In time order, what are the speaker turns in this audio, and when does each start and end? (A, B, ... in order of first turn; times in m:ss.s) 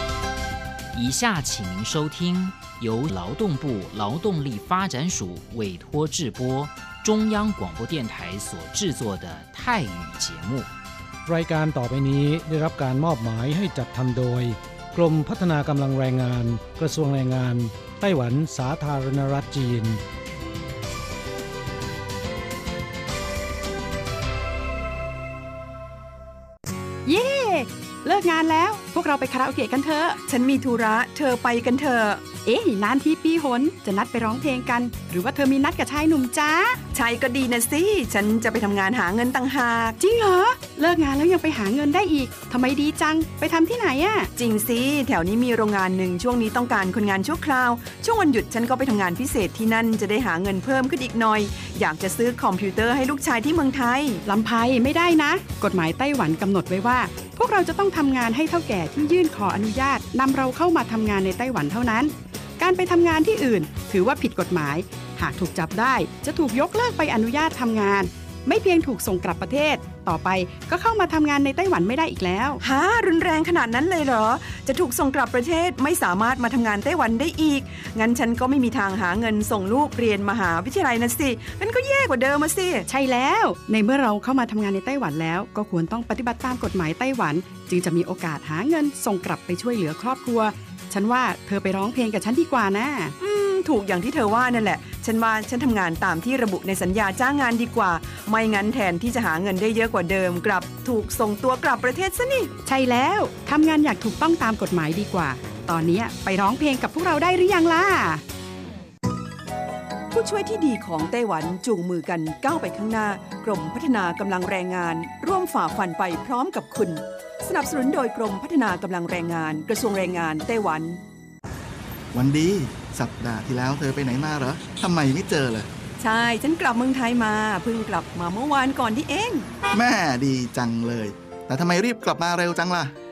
0:00.9-0:10.7 A
0:11.2-0:20.0 B
0:27.1-0:30.2 C
0:30.3-0:32.3 D
0:32.4-0:36.8 C
0:36.9-0:40.0 D
0:40.0-0:44.3 C
0:44.4-0:54.2 D
0:54.2-1:12.6 C
1:12.6-1:22.9 D
1:22.9-1:33.2 C
1:33.2-1:42.5 D
1:42.6-1:48.2 C
1:50.1-2:01.0 D
2:02.1-2:05.7 E
2:06.0-2:09.5 D
2:09.7-2:13.0 E